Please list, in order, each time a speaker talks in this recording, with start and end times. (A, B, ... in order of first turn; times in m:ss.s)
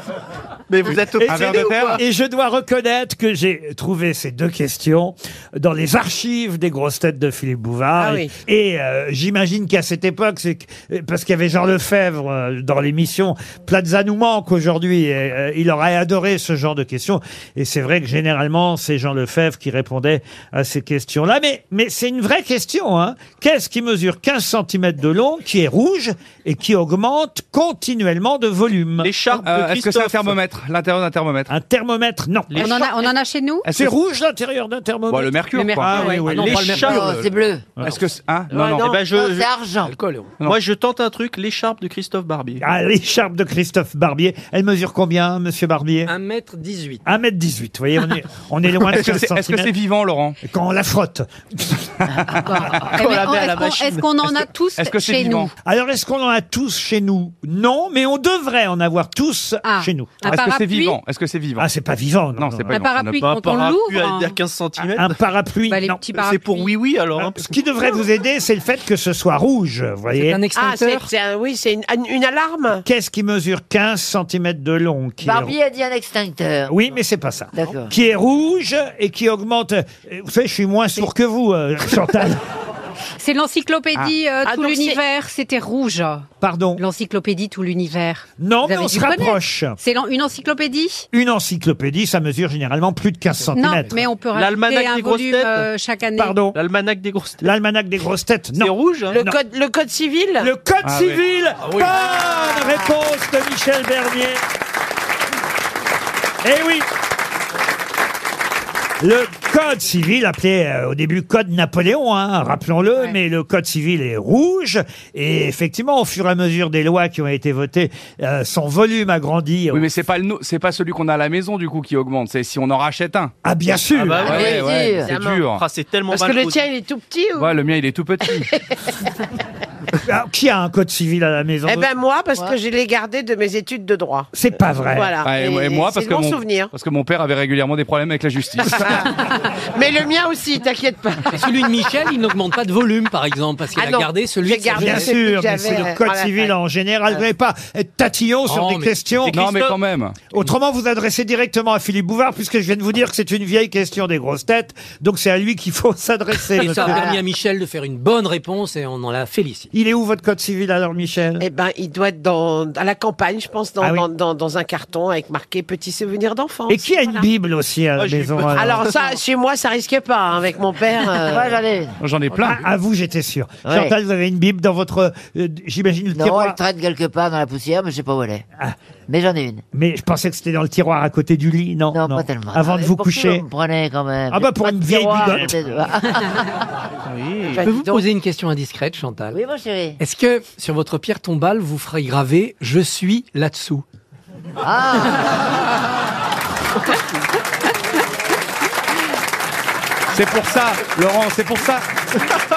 0:00.7-0:02.0 A
0:01.2-0:29.1 B
0:01.2-0:02.0 C
0:08.0-0:08.3 D
0:29.0-0:30.4 A
0:29.4-0:31.5 C
0:31.5-0:32.8 B
0:32.5-0:33.1 A
0:32.6-0:33.6 E
0:33.6-0:33.9 C
0:33.7-0:36.7 B
0:35.1-0:36.2 C
0:35.5-0:36.3 E
0:36.2-0:37.3 F
0:36.3-0:37.2 A
0:36.8-0:37.7 G
0:37.8-0:38.9 C
0:38.5-0:39.1 D
0:38.5-0:39.5 A
0:39.1-0:39.9 G
0:39.8-0:40.4 F
0:40.4-0:42.6 A
0:42.6-0:46.1 B
0:46.0-0:47.0 F
0:47.0-0:49.7 B
0:48.9-0:50.4 C
0:50.4-0:51.9 B
0:52.1-0:52.8 C
0:52.3-0:55.5 E
0:52.9-0:54.1 A
0:54.8-0:55.5 C
0:55.6-1:00.2 B
0:59.6-1:01.0 E
1:00.2-1:01.7 C
1:01.6-1:02.8 B
1:02.4-1:03.3 C
1:02.7-1:04.4 E
1:03.2-1:05.1 A
1:04.8-1:06.0 B
1:05.7-1:06.8 E
1:06.1-1:07.5 A
1:07.2-1:10.4 B
1:10.1-1:11.1 F
1:10.5-1:12.8 D
1:12.8-1:15.5 B
1:15.2-1:16.8 G
1:16.7-1:22.4 B
1:17.5-1:17.9 G
1:23.2-1:31.1 E
1:24.4-1:25.0 D
1:26.4-1:26.8 B
1:28.4-1:29.8 B
1:31.1-1:34.0 B
1:33.5-1:36.4 E
1:34.3-1:35.7 A
1:36.2-1:36.6 B
1:36.5-1:37.4 A
1:37.4-1:39.4 B
1:38.6-1:39.2 A
1:39.1-1:40.5 D
1:40.4-1:44.4 B
1:40.8-1:41.2 C
1:41.6-1:42.0 F
1:46.4-1:46.9 B
1:49.0-1:59.9 B
1:59.7-2:03.3 C
2:03.4-2:04.4 B
2:03.9-2:04.7 A
2:04.0-2:05.6 C
2:04.3-2:05.1 G
2:04.4-2:05.4 D
2:05.4-2:06.6 A
2:06.1-2:07.6 D
2:07.4-2:08.5 C
2:10.0-2:11.9 B
2:11.6-2:14.3 D
2:14.3-2:15.1 B
2:14.9-2:16.7 D
2:15.2-2:19.2 C
2:18.6-2:21.9 D
2:21.3-2:25.1 F
2:23.7-2:26.5 D
2:24.7-2:29.4 B
2:28.5-2:29.0 F
2:29.2-2:29.8 A
2:29.3-2:30.3 C
2:30.3-2:37.1 B
2:36.5-2:39.7 F
2:39.7-2:41.4 B
2:41.4-2:47.2 D
2:43.8-2:44.1 B
2:46.7-2:48.9 B
2:48.0-2:48.8 A
2:48.5-2:51.6 D
2:51.0-2:52.0 G
2:52.0-2:52.6 C
2:52.4-2:56.6 B
2:53.6-2:53.9 G
2:56.1-2:58.4 G
2:59.1-2:59.6 G
2:59.7-3:03.4 B
3:01.9-3:06.6 G
3:04.3-3:05.6 B
3:07.0-3:07.6 A
3:07.5-3:08.0 D
3:07.6-3:09.4 F
3:09.3-3:10.0 G
3:10.0-3:13.8 F
3:14.6-3:15.4 G
3:20.1-3:21.9 C